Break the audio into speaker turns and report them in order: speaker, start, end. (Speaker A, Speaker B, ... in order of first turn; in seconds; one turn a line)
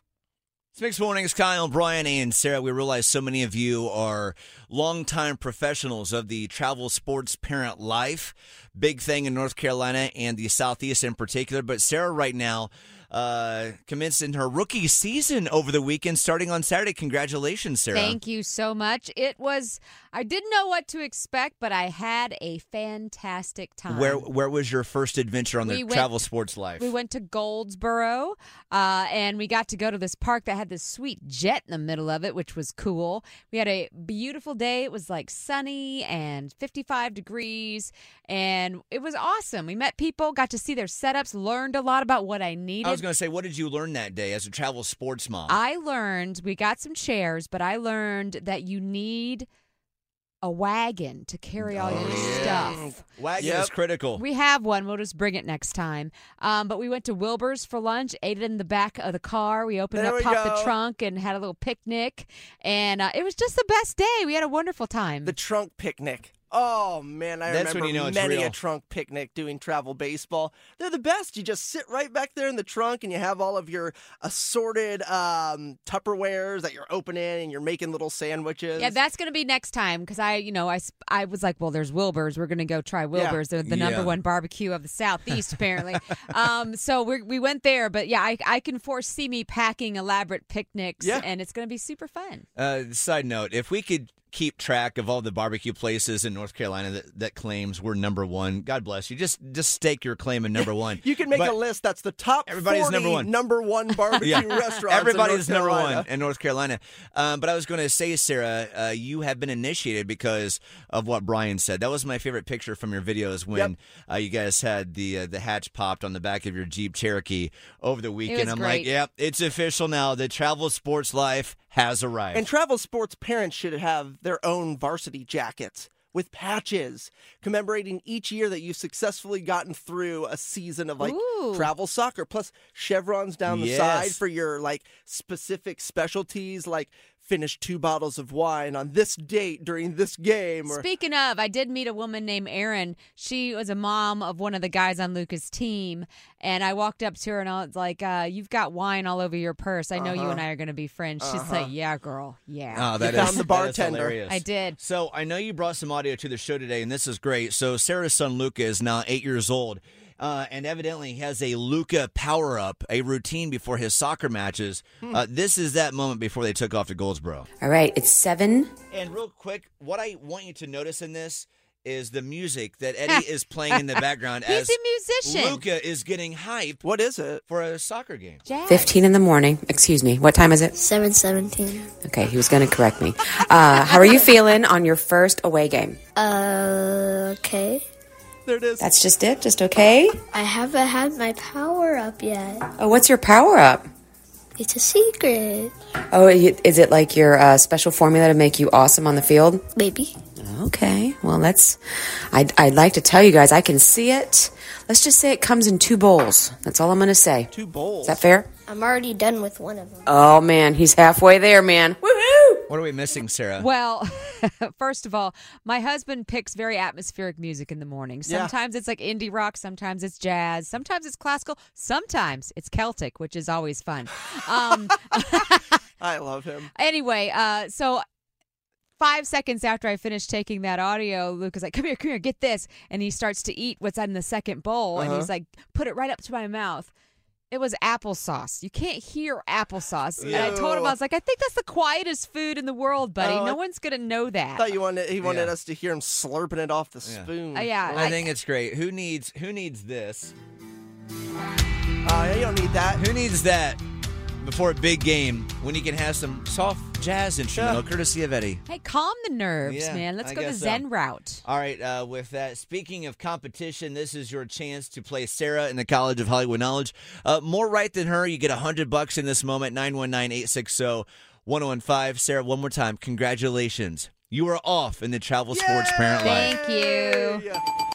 Speaker A: 0.7-18.2
Speaker B: 17.9-24.2
Speaker A: 23.9-26.9
Speaker B: 25.6-43.0
Speaker A: 42.8-45.6
Speaker B: 45.5-49.5
Speaker B: 50.4-52.9
Speaker A: 51.6-54.2
Speaker C: 51.9-53.7
Speaker B: 54.1-65.3
Speaker C: 59.9-60.7
Speaker C: 65.2-79.0
Speaker A: 67.5-68.6
Speaker B: 78.8-92.5
Speaker C: 83.1-83.4
Speaker A: 83.6-84.2
Speaker C: 91.0-91.3
Speaker A: 92.5-101.6
Speaker C: 100.6-106.1
Speaker A: 102.5-103.3
Speaker A: 104.2-122.5
Speaker B: 118.3-118.9
Speaker C: 122.3-140.8
Speaker B: 131.0-131.7
Speaker A: 133.5-134.2
Speaker B: 140.7-153.4
Speaker C: 149.9-150.4
Speaker C: 151.2-151.7
Speaker A: 152.7-167.5
Speaker C: 153.0-154.2
Speaker B: 154.3-154.8
Speaker D: 167.6-168.7
Speaker A: 168.9-176.8
Speaker B: 174.4-175.6
Speaker C: 176.8-177.4
Speaker A: 177.5-178.4
Speaker B: 178.4-179.0
Speaker D: 178.7-180.7
Speaker E: 180.7-181.9
Speaker D: 182.0-186.0
Speaker E: 186.2-187.8
Speaker C: 188.4-188.9
Speaker D: 188.8-190.2
Speaker E: 190.3-192.7
Speaker D: 192.8-193.9
Speaker E: 194.6-195.7
Speaker D: 196.1-199.6
Speaker E: 199.8-200.2
Speaker D: 200.4-201.8
Speaker D: 202.3-207.5
Speaker C: 207.5-208.2
Speaker D: 208.0-208.5
Speaker E: 208.7-210.1
Speaker D: 210.1-212.6
Speaker A: 212.7-213.7
Speaker B: 213.6-225.8
Speaker C: 218.2-218.5
Speaker C: 226.0-226.7
Speaker B: 226.8-228.0
Speaker B: 229.0-236.9
Speaker C: 234.9-235.3
Speaker B: 237.5-244.7
Speaker C: 240.2-240.9
Speaker A: 240.2-240.6
Speaker C: 243.2-243.6
Speaker C: 244.6-248.1
Speaker A: 245.2-245.5
Speaker A: 247.0-247.3
Speaker B: 247.5-248.3
Speaker A: 247.9-250.3
Speaker C: 252.0-253.0
Speaker A: 252.9-253.8
Speaker A: 254.4-258.6
Speaker C: 257.5-257.8
Speaker B: 258.6-261.4
Speaker A: 259.6-260.9
Speaker A: 261.4-276.5
Speaker C: 275.5-277.6
Speaker B: 276.2-277.4